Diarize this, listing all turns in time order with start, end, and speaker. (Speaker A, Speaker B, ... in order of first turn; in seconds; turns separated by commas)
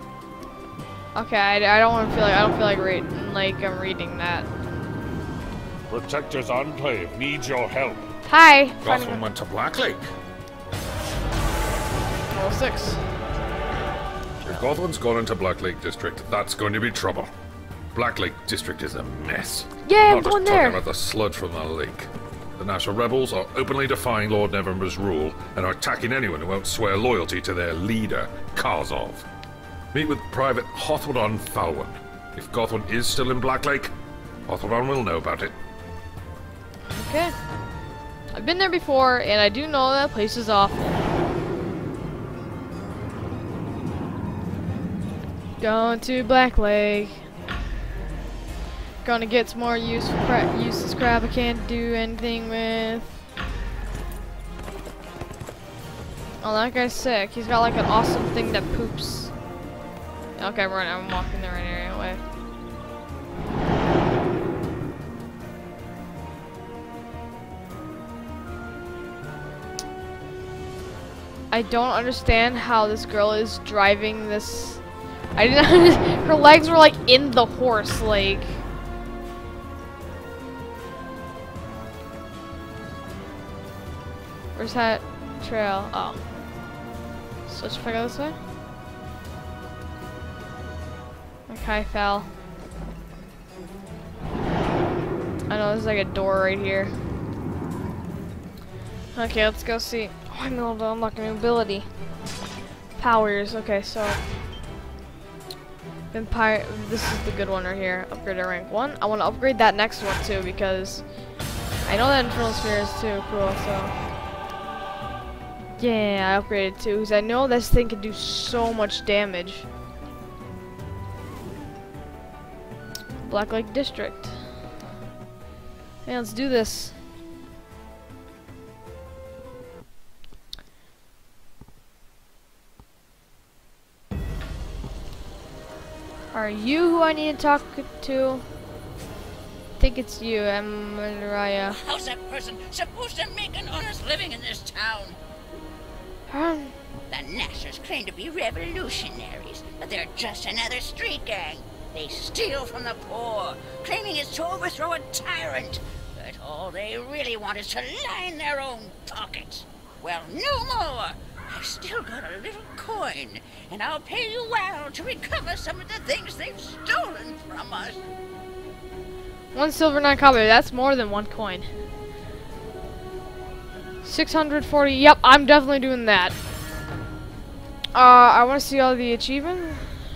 Speaker A: 1.1-4.5, Speaker B: 5.9-8.1, Speaker A: 8.2-9.2, Speaker B: 8.8-10.1, Speaker A: 12.3-13.0, Speaker B: 14.4-17.3, Speaker B: 17.9-29.2, Speaker A: 19.8-20.8, Speaker B: 29.9-33.9, Speaker B: 34.5-35.5, Speaker A: 36.9-37.4, Speaker A: 38.3-41.0, Speaker A: 45.6-47.2, Speaker A: 49.0-53.2, Speaker A: 56.4-59.3, Speaker A: 60.4-62.2, Speaker A: 71.5-74.8, Speaker A: 75.3-78.6, Speaker A: 84.5-86.2, Speaker A: 87.5-88.4, Speaker A: 91.5-92.3, Speaker A: 95.5-96.9, Speaker A: 99.1-101.9, Speaker A: 103.0-104.2, Speaker A: 106.1-111.0, Speaker A: 111.9-114.0, Speaker A: 115.8-119.7, Speaker A: 123.2-124.4, Speaker A: 126.0-127.0, Speaker A: 136.3-138.4, Speaker A: 139.8-141.8, Speaker C: 141.6-145.2, Speaker A: 146.3-146.8, Speaker C: 147.1-168.0, Speaker A: 169.5-171.7, Speaker A: 174.0-176.3, Speaker A: 177.9-179.9